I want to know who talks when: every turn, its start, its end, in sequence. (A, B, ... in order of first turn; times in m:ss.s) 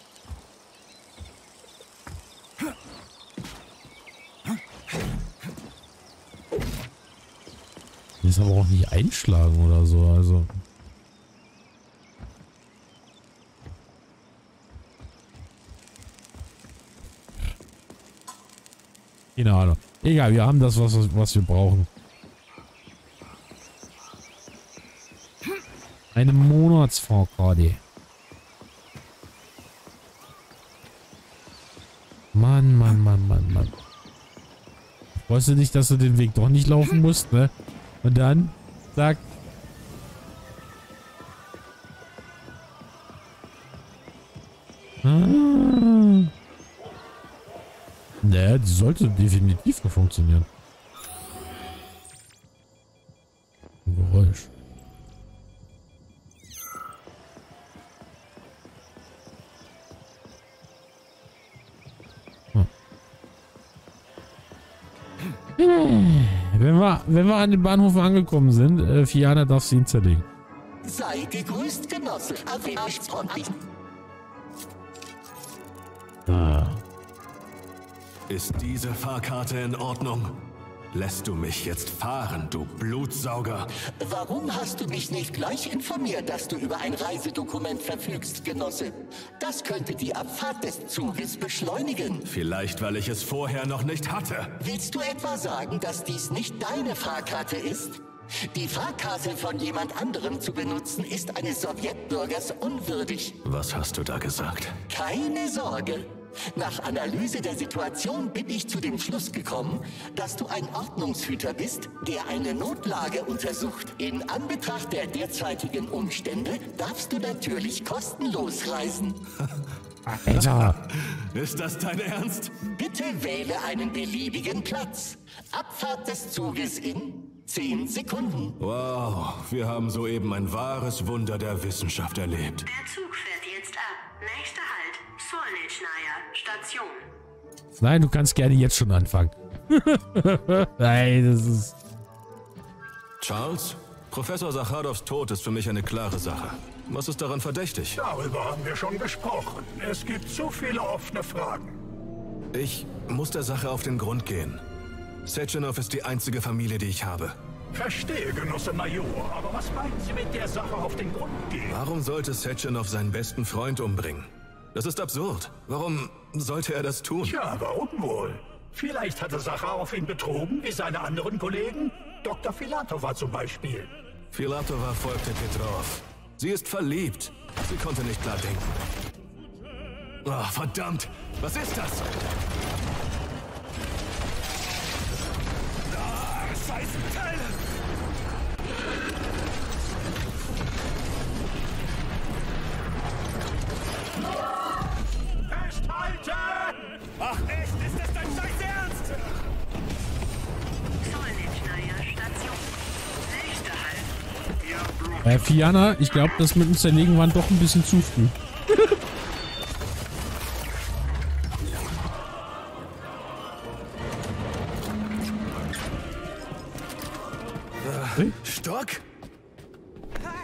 0:08.2-0:10.6 A
0:19.4-0:21.9 A
0:26.1-0:27.8 A
0:32.3-0:33.7 A
0:35.2-0:37.5 A
0:38.0-0:39.2 A
0:45.0-0:46.3 A
0:48.2-0:50.5 A
0:53.9-0:54.5 A
1:05.6-1:10.3 A
1:10.8-1:13.6 B
1:16.3-1:16.8 A
1:18.3-1:23.7 C
1:23.9-1:32.3 B
1:32.3-1:34.6 C
1:34.6-1:43.4 B
1:43.4-1:44.8 C
1:44.9-1:59.2 B
2:00.1-2:00.8 A
2:00.3-2:02.5 C
2:02.6-2:08.6 B
2:08.6-2:12.7 C
2:12.7-2:17.1 D
2:17.8-2:21.7 A
2:23.2-2:28.0 C
2:28.0-2:31.8 E
2:32.5-2:34.6 C
2:35.3-2:37.4 C
2:37.7-2:41.8 E
2:41.7-2:47.4 C
2:47.2-2:53.9 E
2:54.3-2:58.7 C
3:00.2-3:02.1 C
3:06.2-3:07.3 C
3:15.5-3:16.8 E
3:17.2-3:19.1 C
3:21.0-3:24.1 D
3:25.2-3:29.0 A
3:37.8-3:39.0 C